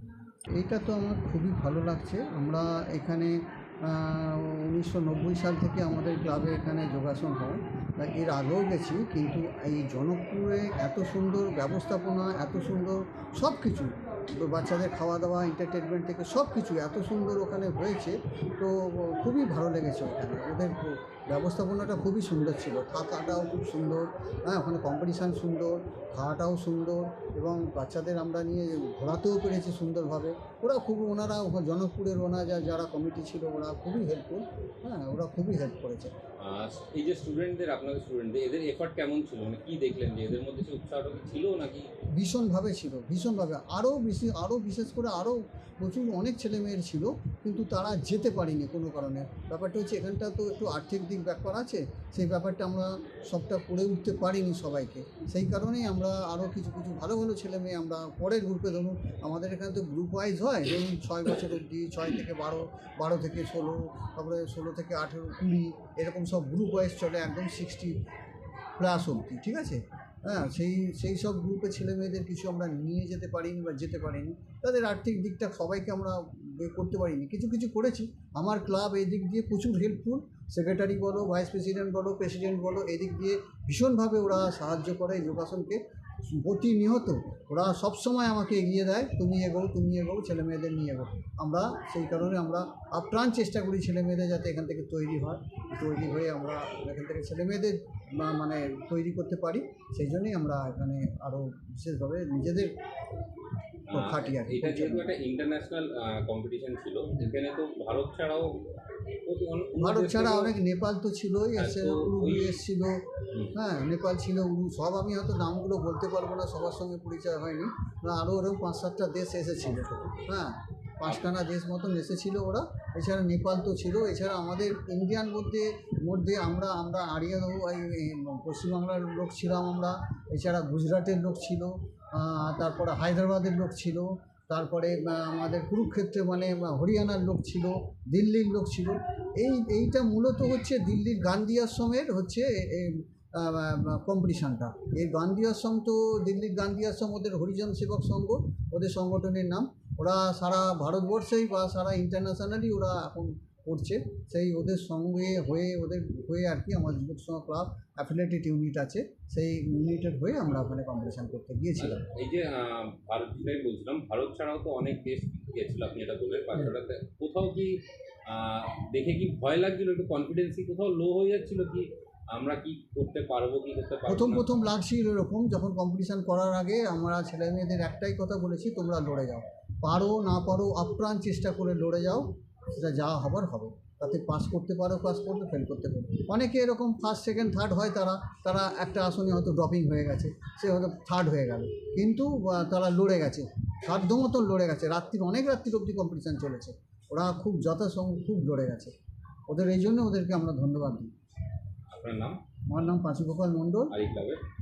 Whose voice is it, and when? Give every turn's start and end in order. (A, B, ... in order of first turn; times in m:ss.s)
0:00.6-0:36.1 A
0:36.4-0:41.9 B
0:42.2-1:07.9 A
1:08.8-1:42.7 A
1:43.9-1:48.6 B
1:43.9-1:45.1 A
1:49.3-1:50.6 B
1:49.8-1:53.0 A
1:51.6-1:52.6 B
1:53.5-2:42.0 A
2:41.8-2:54.5 B
2:54.1-3:18.9 A
3:19.5-3:21.1 A
3:21.9-3:22.4 B
3:22.7-3:23.9 A
3:23.9-3:24.4 B